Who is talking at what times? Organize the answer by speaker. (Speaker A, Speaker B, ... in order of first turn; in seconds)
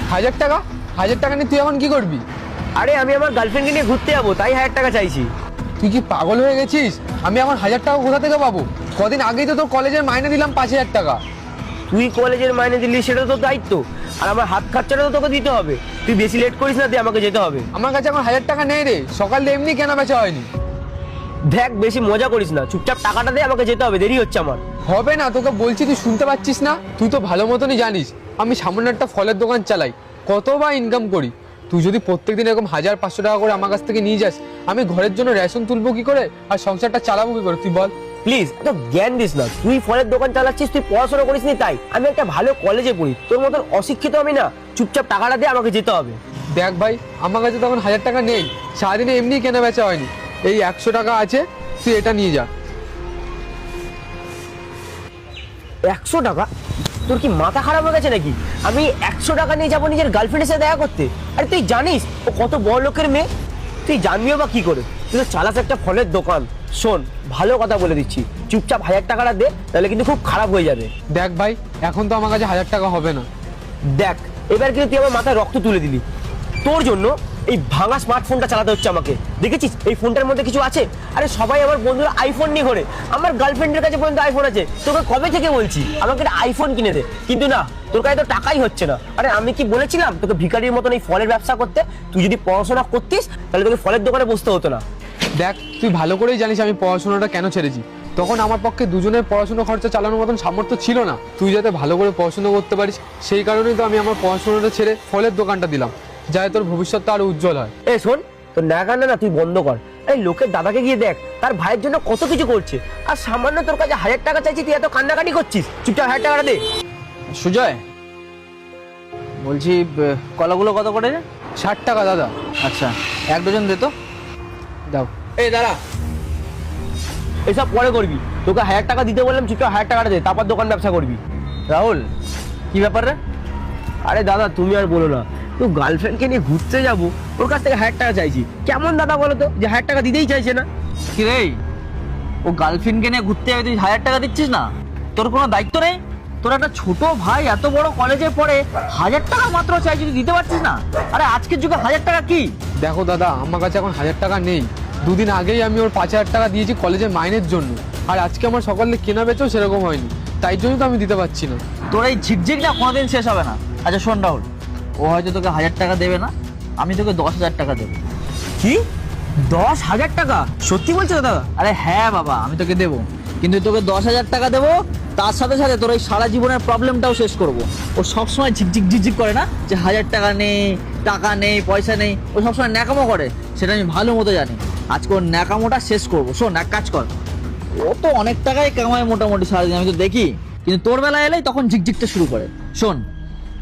Speaker A: 0.1-2.2, 5.8-11.2, 17.7-20.5, 24.9-37.9, 46.6-52.5, 71.2-73.3, 95.4-107.7, 121.6-122.3, 124.9-125.8, 152.8-161.6
Speaker B: 2.8-5.3, 11.9-17.7, 21.5-24.6, 38.2-46.2, 55.9-56.5, 57.1-63.3, 63.9-70.9, 74.0-76.0, 76.6-94.8, 107.9-116.6, 127.5-131.2, 134.1-140.7, 169.5-171.5
Speaker C: 117.3-117.8, 119.4-121.2, 122.6-123.9, 131.7-132.1, 132.7-133.2, 141.1-141.6, 142.4-152.5, 161.9-164.5, 165.0-168.0, 171.6-187.1, 187.8-193.0